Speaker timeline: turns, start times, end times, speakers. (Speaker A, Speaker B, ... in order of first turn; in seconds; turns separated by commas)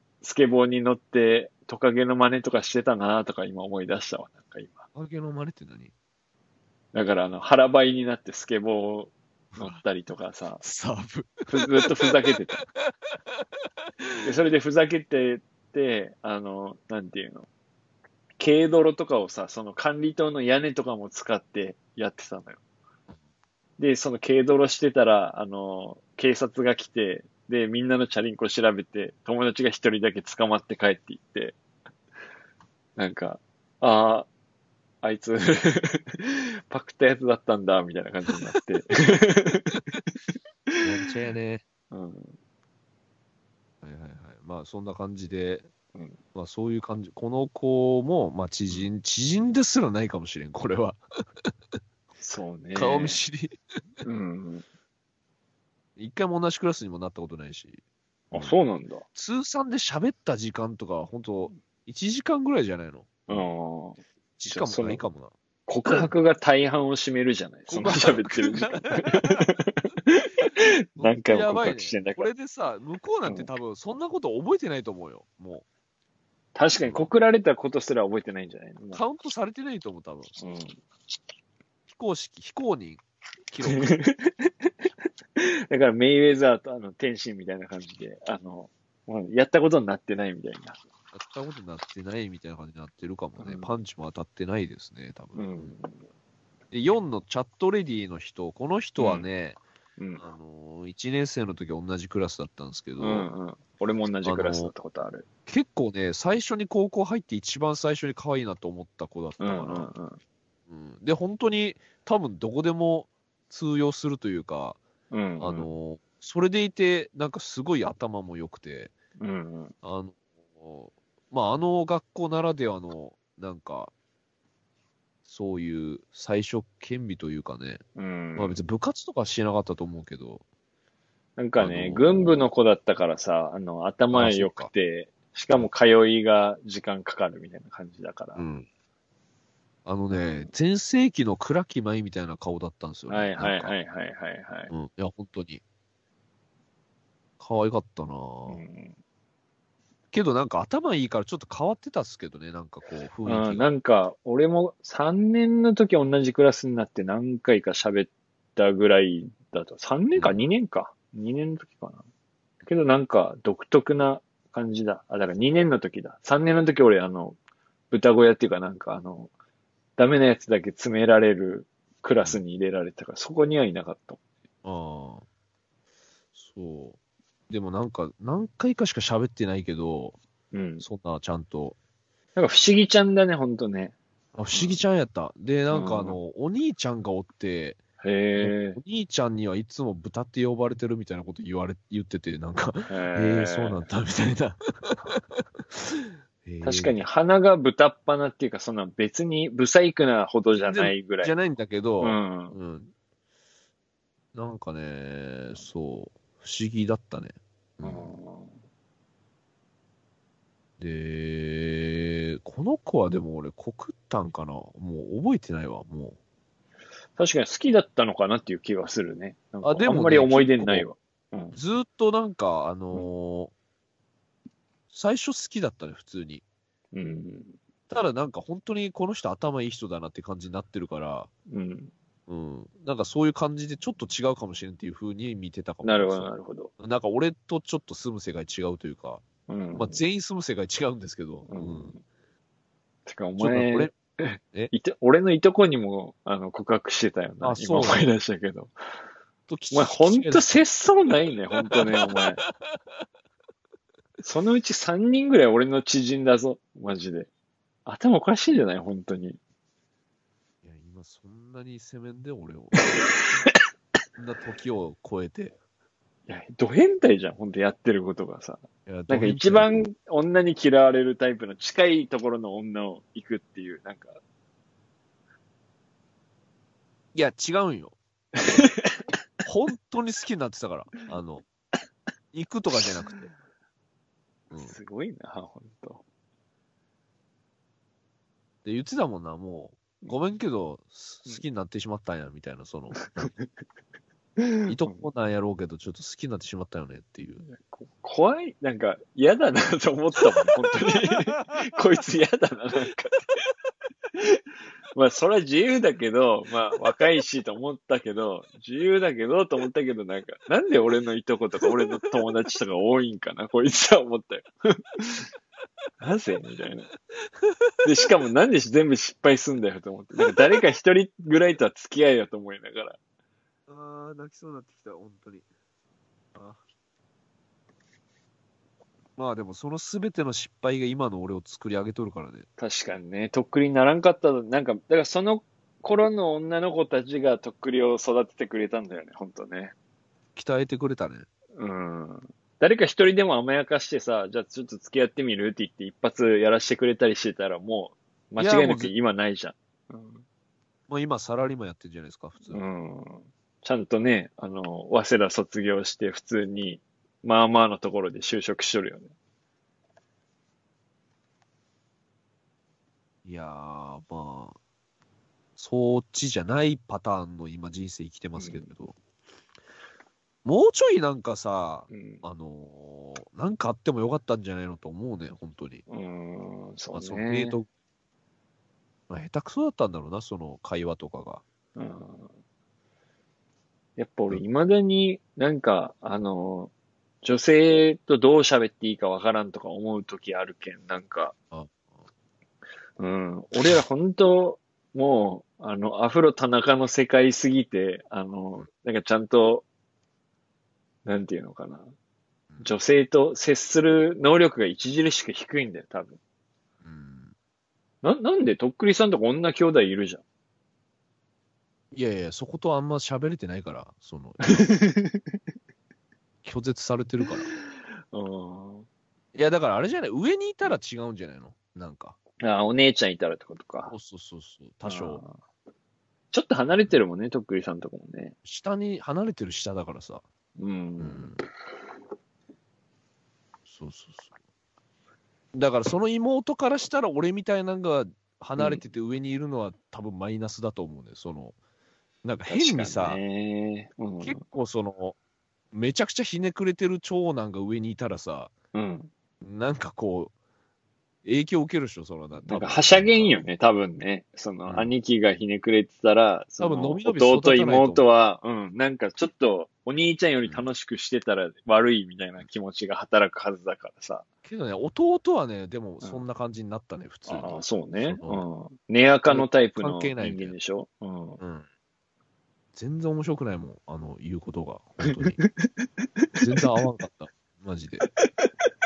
Speaker A: 0.2-4.8, Speaker B: 4.9-5.9, Speaker A: 6.9-10.6, Speaker B: 9.5-9.8, Speaker B: 10.6-12.3, Speaker A: 11.5-12.6, Speaker A: 14.2-17.5, Speaker A: 18.4-22.6, Speaker A: 23.8-31.6, Speaker A: 33.0-34.3, Speaker A: 35.0-39.8, Speaker B: 40.8-41.6, Speaker A: 41.9-42.4, Speaker B: 43.8-45.7, Speaker B: 46.3-51.0, Speaker A: 52.2-53.2, Speaker B: 52.7-53.6, Speaker A: 54.0-54.6, Speaker B: 56.0-57.8, Speaker A: 58.3-59.0, Speaker B: 59.1-63.5, Speaker A: 63.3-65.0, Speaker B: 64.4-65.3, Speaker A: 65.7-72.3, Speaker B: 65.8-66.1, Speaker B: 67.7-69.5, Speaker B: 71.0-75.6, Speaker A: 76.5-79.0, Speaker B: 76.8-77.1, Speaker B: 78.9-80.3, Speaker A: 80.4-80.8, Speaker B: 81.9-84.0, Speaker A: 83.7-84.7, Speaker A: 85.4-90.8, Speaker B: 91.1-95.7, Speaker A: 93.4-93.7, Speaker A: 95.3-96.0, Speaker B: 96.7-99.6, Speaker A: 99.0-99.3, Speaker A: 100.0-100.2, Speaker B: 100.2-103.3, Speaker A: 103.0-105.2, Speaker B: 104.2-104.7, Speaker B: 105.5-109.9, Speaker A: 109.4-110.2, Speaker B: 110.7-114.8, Speaker A: 115.1-115.7, Speaker B: 115.4-118.9, Speaker A: 119.2-119.7, Speaker B: 119.8-123.9, Speaker B: 125.2-127.8, Speaker A: 128.0-128.6, Speaker B: 128.3-130.4, Speaker A: 131.4-138.4, Speaker B: 131.6-132.5, Speaker B: 134.1-134.7, Speaker B: 138.3-138.7, Speaker B: 139.8-143.7, Speaker A: 143.1-144.7, Speaker B: 144.7-145.6, Speaker B: 147.4-148.6, Speaker A: 148.5-148.9, Speaker B: 150.1-153.7, Speaker A: 153.2-162.0, Speaker B: 160.1-160.4, Speaker A: 162.6-167.4, Speaker A: 167.9-169.3, Speaker A: 170.0-174.2, Speaker B: 174.6-175.2, Speaker B: 176.3-177.0, Speaker B: 177.5-180.2, Speaker A: 180.5-180.8, Speaker B: 180.8-181.8, Speaker A: 182.3-183.9, Speaker B: 184.3-187.8, Speaker A: 184.5-184.8, Speaker A: 185.7-186.2, Speaker A: 188.0-188.8, Speaker B: 188.4-197.1, Speaker A: 192.9-193.8, Speaker A: 196.6-201.3, Speaker B: 200.6-202.9, Speaker A: 202.0-202.6, Speaker B: 204.3-208.2, Speaker A: 207.8-208.6, Speaker B: 210.8-216.2, Speaker A: 217.2-221.6, Speaker B: 219.6-220.9, Speaker B: 221.5-223.5, Speaker B: 224.9-226.4, Speaker A: 226.9-227.5, Speaker B: 227.9-231.3, Speaker A: 231.5-231.9, Speaker B: 232.3-241.9, Speaker A: 235.8-236.7, Speaker A: 239.5-240.0, Speaker A: 241.5-242.0, Speaker A: 243.1-248.7, Speaker B: 243.4-243.9, Speaker B: 247.4-248.1, Speaker B: 249.5-250.6, Speaker A: 249.7-252.4, Speaker B: 251.6-252.5, Speaker A: 254.2-257.3, Speaker A: 257.9-259.4, Speaker B: 260.6-262.9, Speaker A: 262.9-263.6, Speaker B: 264.2-265.6, Speaker A: 266.3-274.2, Speaker B: 268.9-269.9, Speaker B: 277.1-278.0, Speaker A: 278.4-279.0, Speaker B: 279.4-281.4, Speaker B: 282.3-283.3, Speaker B: 284.5-284.8, Speaker A: 284.6-286.0, Speaker B: 288.6-293.3, Speaker A: 294.4-295.0, Speaker B: 294.6-297.4, Speaker A: 297.5-303.3, Speaker A: 304.1-304.4, Speaker A: 304.9-315.3, Speaker A: 316.0-316.9, Speaker A: 317.8-323.0, Speaker B: 323.7-325.4, Speaker B: 326.3-326.6, Speaker B: 329.2-332.5, Speaker A: 332.6-339.7, Speaker B: 340.4-341.3, Speaker A: 341.5-350.2, Speaker B: 348.4-348.9, Speaker B: 350.9-352.6, Speaker A: 352.5-359.1, Speaker B: 363.2-364.6, Speaker B: 365.6-368.9, Speaker A: 368.4-368.7, Speaker B: 370.4-375.8, Speaker A: 371.9-372.2, Speaker A: 375.9-377.6, Speaker B: 376.9-377.7, Speaker B: 379.1-381.4, Speaker A: 381.8-382.3, Speaker A: 384.0-386.7, Speaker A: 387.2-391.3, Speaker B: 391.5-391.9, Speaker A: 393.0-399.6, Speaker A: 401.0-401.9, Speaker B: 402.5-402.8, Speaker A: 402.6-406.2, Speaker B: 406.8-407.3, Speaker A: 408.0-410.2, Speaker B: 411.9-414.8, Speaker A: 414.5-415.3, Speaker B: 416.4-417.5, Speaker A: 417.2-417.6, Speaker A: 418.1-418.9, Speaker B: 419.3-422.2, Speaker A: 422.4-423.9, Speaker B: 423.9-425.2, Speaker A: 424.8-425.3, Speaker A: 426.3-428.3, Speaker B: 428.4-430.2, Speaker A: 430.6-431.3, Speaker B: 431.0-431.4, Speaker B: 433.7-434.3, Speaker B: 435.5-441.5, Speaker B: 442.2-443.2, Speaker A: 442.5-444.4, Speaker B: 444.2-445.2, Speaker B: 445.7-448.5, Speaker A: 448.7-449.1, Speaker B: 449.4-450.3, Speaker B: 451.2-453.4, Speaker A: 452.4-464.2, Speaker B: 454.6-454.9, Speaker B: 456.6-458.1, Speaker B: 464.4-468.4, Speaker A: 467.3-471.4, Speaker B: 469.3-470.5, Speaker B: 471.4-471.6, Speaker B: 472.7-475.4, Speaker A: 475.1-476.4, Speaker B: 476.4-478.1, Speaker A: 478.2-478.5